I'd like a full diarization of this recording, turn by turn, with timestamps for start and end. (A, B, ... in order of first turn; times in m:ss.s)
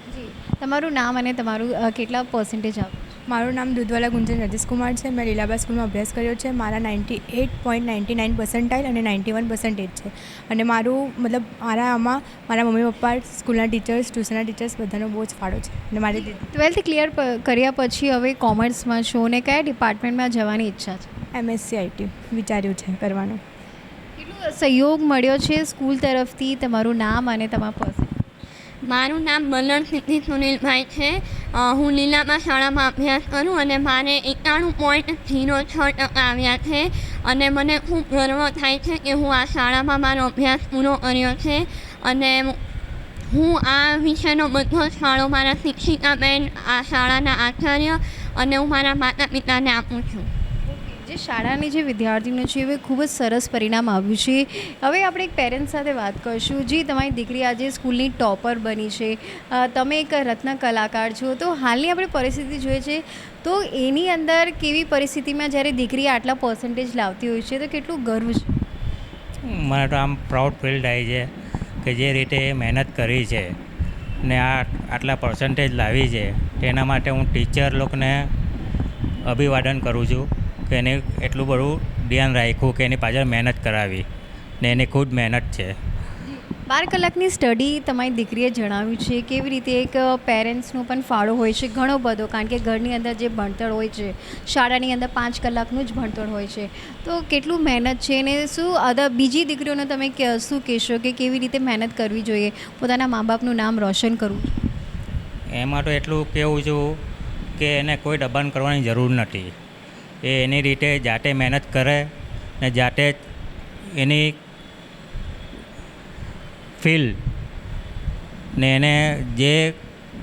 0:00.1-0:03.2 A
0:03.3-0:16.4 B
0:16.2-0:21.1 A
0:21.4-0:23.4 B
0:24.2-0:28.2 A
0:28.8-0:42.6 C
0:43.3-0:50.3 C
0:50.7-1:08.6 A
1:09.5-1:11.3 D
1:11.8-1:13.6 D
1:14.2-1:18.2 D
1:19.3-1:24.0 D
1:24.6-1:25.7 D
1:26.7-1:44.6 A
1:45.6-1:46.8 D
1:47.6-1:49.5 D
1:50.2-1:52.1 D
1:52.6-1:53.1 D
1:54.0-1:54.4 D
1:56.8-1:57.1 D
1:58.6-1:59.6 D